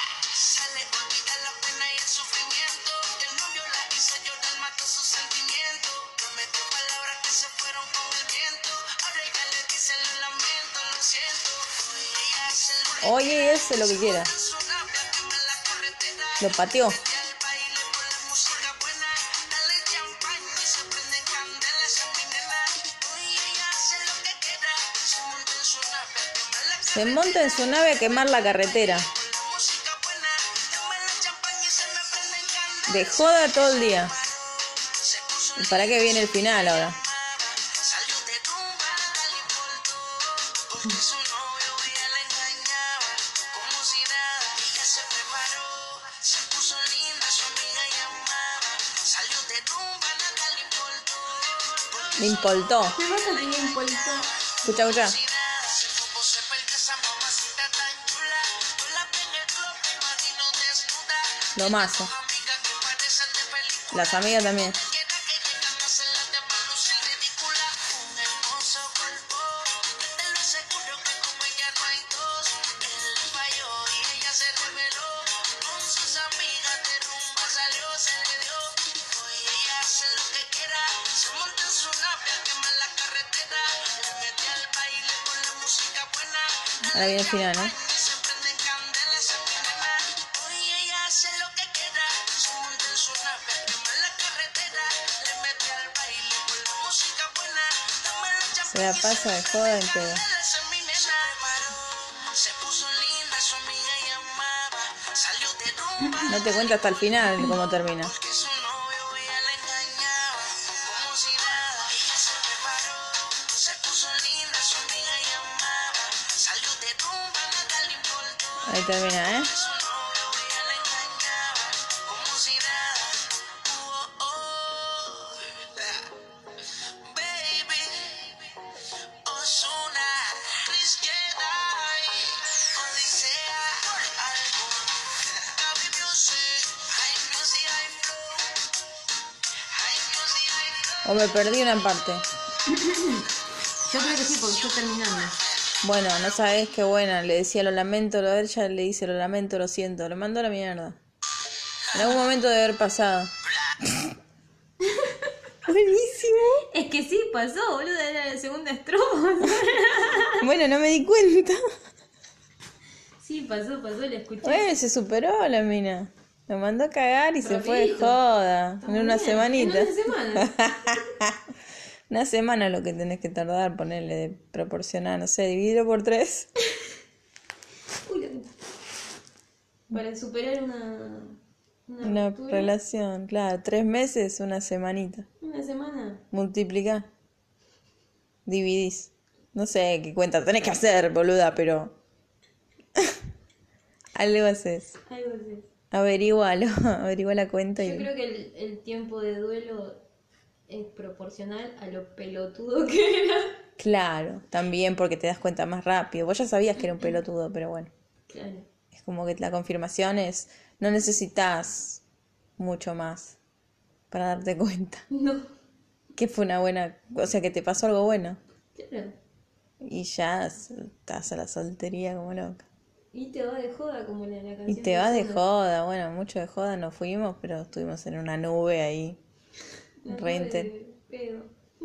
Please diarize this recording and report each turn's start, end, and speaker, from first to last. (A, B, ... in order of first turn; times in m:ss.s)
0:00.2-0:13.0 A
0:13.0-0:14.3 B
0:14.0-0:16.4 A
0:16.4-0:17.0 B
0:17.1-0:27.0 A
0:26.8-0:29.1 B
0:29.2-0:33.0 A
0:32.9-0:34.2 B
0:34.3-0:36.2 A
0:35.6-0:37.0 B
0:36.9-0:52.2 A
0:52.2-0:53.0 B
0:52.9-0:54.3 C
0:54.6-0:55.2 B
0:55.4-1:01.5 A
1:01.6-1:02.1 B
1:02.2-1:03.9 A
1:03.9-1:04.8 B
1:04.8-1:38.7 A
1:26.9-1:27.8 B
1:38.6-1:40.3 B
1:40.4-1:46.2 A
1:46.0-1:46.3 C
1:46.3-1:48.2 B
1:48.2-1:58.5 A
1:58.6-1:59.5 B
1:59.7-2:06.1 A
2:07.0-2:08.4 A
2:09.2-2:14.9 A
2:15.5-2:18.6 A
2:19.7-2:20.9 A
2:21.0-2:22.3 B
2:22.7-2:23.3 C
2:23.9-2:25.4 C
2:25.8-2:31.0 B
2:31.9-2:34.1 B
2:35.0-2:35.3 C
2:35.7-2:36.7 B
2:36.7-2:40.4 C
2:40.4-2:41.6 B
2:43.2-2:44.7 C
2:44.4-2:51.4 B
2:47.4-2:48.2 C
2:48.8-2:51.0 C
2:52.1-2:56.5 B
2:58.0-2:58.5 C
2:59.9-3:02.8 C
3:02.0-3:05.3 B
3:05.4-3:06.2 C
3:06.3-3:07.1 B
3:08.5-3:12.0 B
3:14.2-3:15.0 B
3:15.1-3:15.7 C
3:15.9-3:18.1 B
3:17.8-3:20.0 C
3:20.7-3:23.6 C
3:23.8-3:27.9 B
3:28.3-3:28.7 C
3:28.9-3:32.0 B
3:32.6-3:33.4 B
3:34.1-3:35.0 B
3:35.1-3:35.5 C
3:36.2-3:38.4 B
3:38.8-3:39.2 C
3:39.8-3:42.6 B
3:43.1-3:45.4 C
3:44.7-3:49.2 B
3:50.0-3:51.5 C
3:50.1-3:50.7 B